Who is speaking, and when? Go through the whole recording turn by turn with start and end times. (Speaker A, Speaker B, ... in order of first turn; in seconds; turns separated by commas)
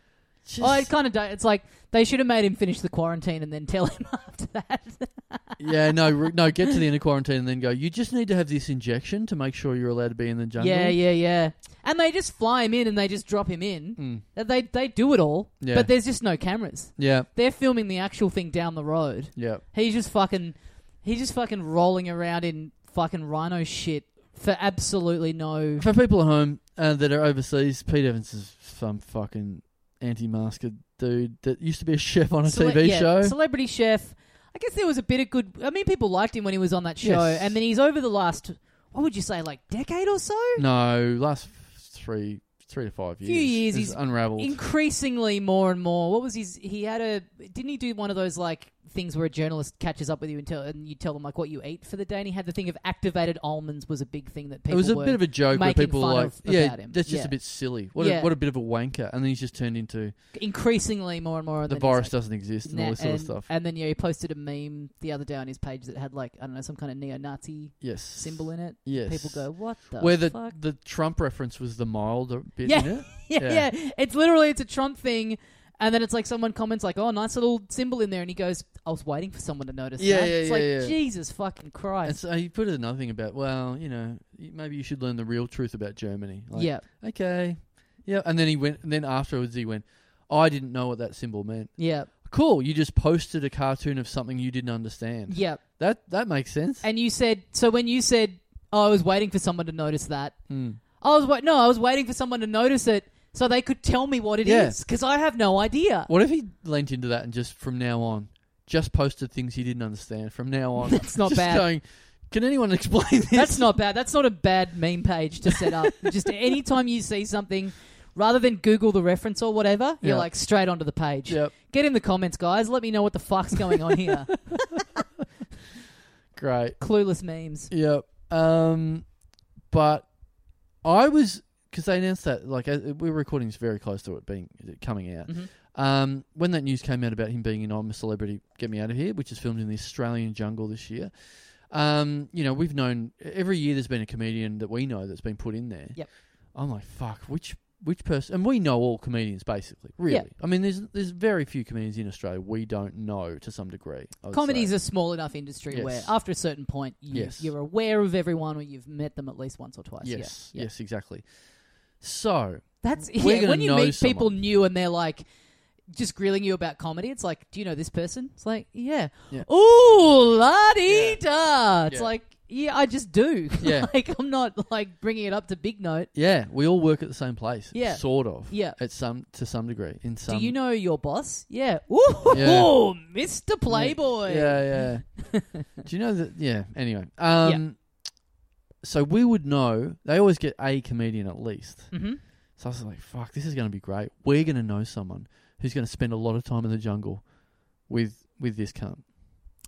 Speaker A: 0.4-0.9, Speaker B: 0.6-5.7, Speaker A: 5.6-11.0, Speaker B: 10.6-25.9, Speaker A: 14.0-14.2, Speaker A: 15.6-15.9, Speaker A: 17.0-17.3, Speaker A: 19.3-19.6, Speaker A: 25.8-33.4, Speaker B: 32.4-40.6, Speaker A: 37.0-37.6, Speaker A: 40.5-44.6, Speaker B: 43.2-58.3, Speaker A: 54.7-60.1, Speaker B: 60.3-70.6, Speaker A: 61.7-63.5, Speaker A: 67.8-73.7, Speaker B: 72.7-82.2, Speaker A: 80.0-81.0, Speaker A: 82.0-96.8, Speaker B: 86.5-86.8, Speaker B: 91.8-92.1, Speaker B: 95.3-95.6, Speaker B: 96.8-106.1, Speaker A: 100.5-100.8, Speaker A: 104.4-104.8, Speaker A: 106.1-113.7, Speaker B: 110.9-111.7, Speaker B: 113.3-124.5, Speaker A: 120.0-120.5, Speaker A: 121.2-121.5, Speaker A: 126.3-126.8, Speaker B: 126.8-127.7, Speaker A: 127.7-129.2, Speaker A: 129.7-154.8, Speaker B: 154.3-160.7, Speaker A: 155.7-156.2, Speaker A: 157.1-157.5, Speaker A: 160.0-161.3, Speaker A: 162.0-164.4, Speaker B: 162.8-165.2, Speaker B: 165.9-176.1, Speaker A: 170.9-171.2, Speaker A: 173.6-173.9, Speaker A: 176.1-180.5, Speaker B: 177.7-178.8, Speaker B: 180.2-185.7, Speaker A: 182.3-183.0, Speaker A: 183.7-188.2, Speaker A: 188.8-199.0, Speaker B: 191.9-192.2